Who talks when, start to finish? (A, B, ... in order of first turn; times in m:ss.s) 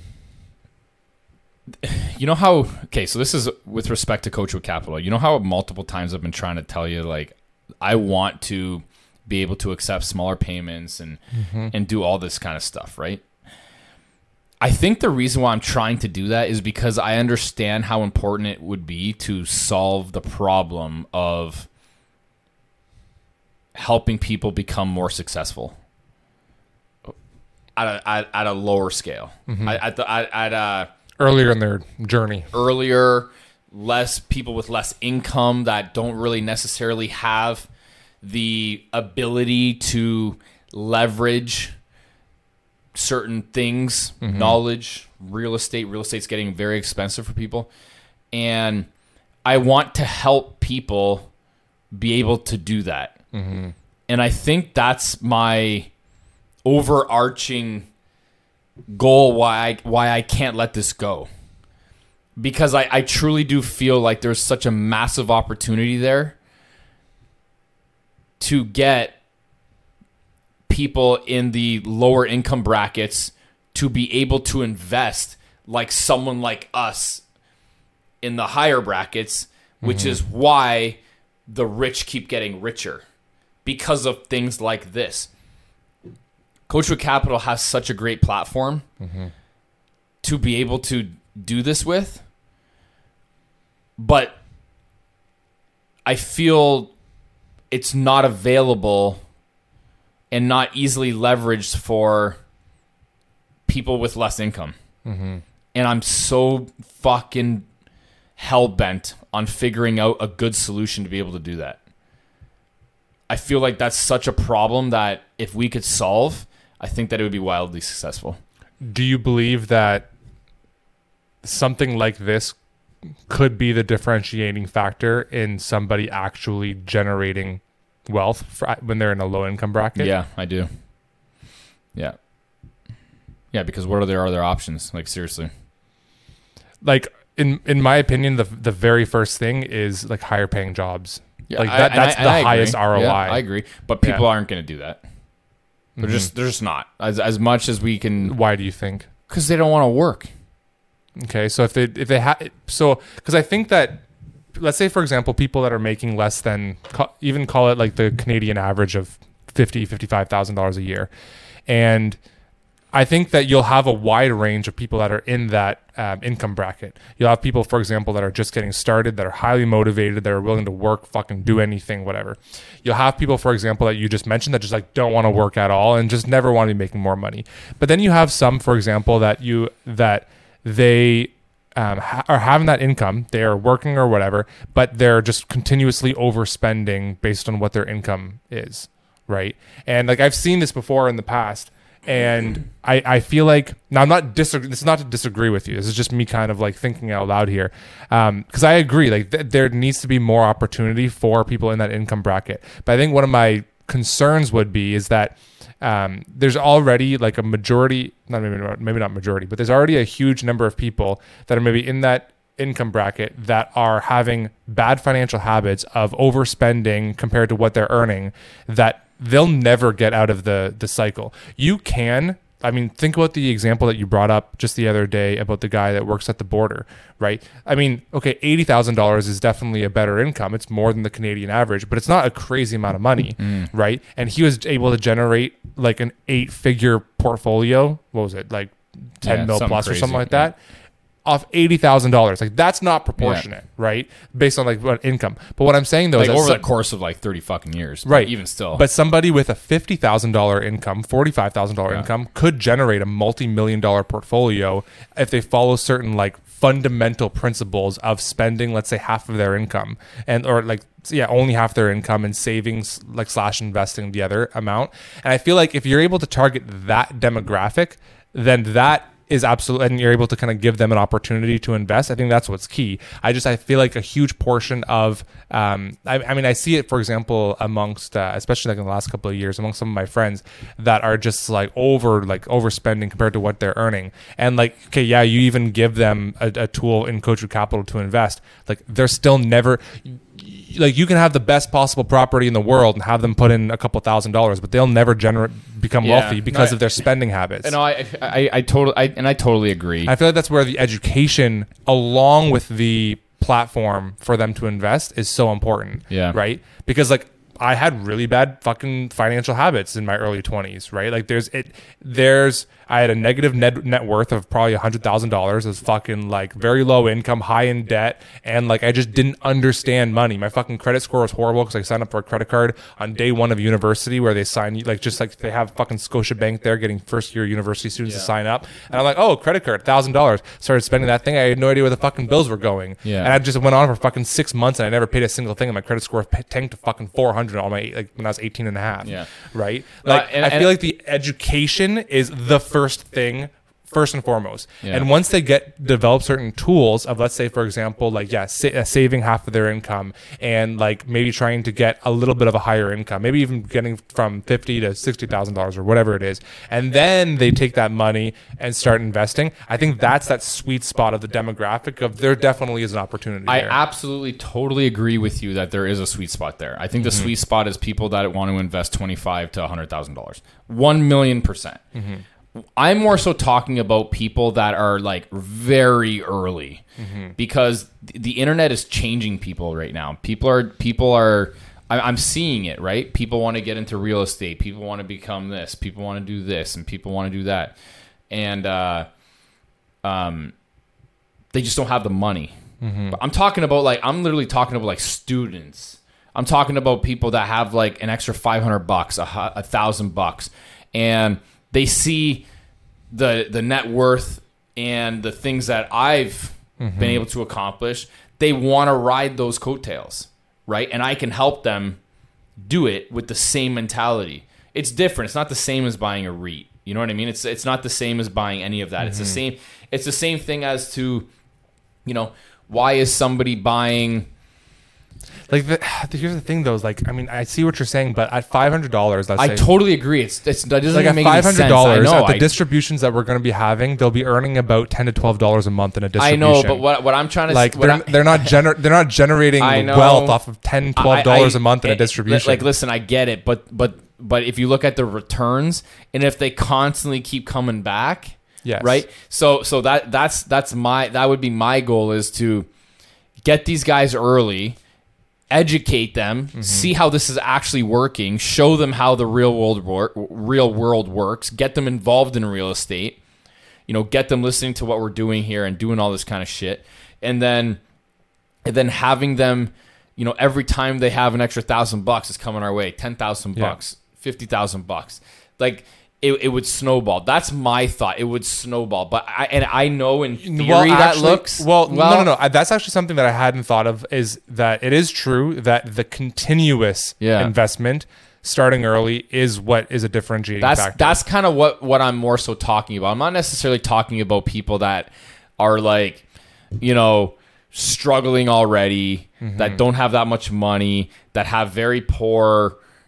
0:01.8-0:13.2 A
0:11.3-0:11.7 B
0:14.6-0:21.7 A
0:23.8-0:25.8 A
0:27.8-0:30.9 A
0:29.5-0:29.8 B
0:31.2-0:32.5 B
0:32.5-0:37.7 A
0:38.2-0:41.8 A
0:43.0-0:47.7 A
0:44.2-0:44.6 B
0:48.3-0:48.9 A
0:49.4-0:51.3 A
0:51.9-0:53.2 A
0:53.3-0:53.7 B
0:54.1-0:55.9 A
0:56.6-0:57.9 A
0:58.9-1:01.3 A
1:02.4-1:06.4 A
1:08.4-1:09.2 A
1:10.7-1:17.2 A
1:18.2-1:23.0 A
1:19.8-1:20.2 B
1:23.6-1:25.3 A
1:26.7-1:28.8 A
1:29.0-1:29.3 B
1:30.2-1:32.2 A
1:34.0-1:34.4 A
1:36.1-1:36.9 A
1:37.7-1:39.2 A
1:40.3-1:42.4 A
1:43.7-1:44.8 A
1:45.1-1:45.4 B
1:45.8-1:47.7 A
1:48.4-1:51.8 A
1:53.3-1:58.4 A
1:58.8-2:00.1 B
2:01.4-2:02.6 B
2:03.3-2:10.1 B
2:10.0-2:10.7 A
2:13.5-2:15.5 A
2:16.8-2:23.4 B
2:21.5-2:25.0 A
2:26.0-2:26.3 B
2:26.0-2:28.4 A
2:28.2-2:29.1 B
2:29.3-2:30.3 A
2:31.2-2:41.1 B
2:41.7-2:42.2 B
2:42.9-4:00.6 B
3:53.4-3:53.7 A
3:59.2-4:00.5 A
4:01.2-4:06.6 B
4:03.2-4:03.4 A
4:06.2-4:08.8 A
4:08.0-4:57.7 B
4:56.0-4:56.9 A
4:57.6-5:00.1 A
5:00.1-6:03.8 B
5:06.1-5:06.4 A
5:28.0-5:28.3 A
5:33.0-5:33.4 A
5:39.0-5:39.3 A
5:40.0-5:40.8 A
6:03.5-6:11.8 A
6:07.0-6:07.3 B
6:12.0-6:12.2 B
6:12.8-6:16.8 A
6:17.0-6:17.4 B
6:17.4-6:27.8 A
6:28.3-6:29.1 A
6:30.0-6:30.5 A
6:31.5-6:32.6 A
6:32.8-6:33.2 B
6:33.1-6:42.4 A
6:43.1-6:52.0 A
6:46.8-6:47.2 B
6:52.6-7:01.3 A
6:59.0-6:59.4 B
7:02.0-7:04.3 A
7:05.5-7:09.7 B
7:09.4-7:12.5 A
7:10.9-7:16.9 B
7:16.2-7:18.6 A
7:17.5-7:22.7 B
7:19.6-7:20.4 A
7:21.0-7:32.7 A
7:28.6-7:29.0 B
7:33.4-7:34.8 A
7:35.5-7:43.2 A
7:36.6-7:36.9 B
7:43.9-7:47.8 A
7:48.7-8:02.3 A
8:00.4-8:11.2 B
8:07.2-8:07.5 A
8:10.6-8:16.2 A
8:16.8-8:22.8 A
8:19.4-8:19.8 B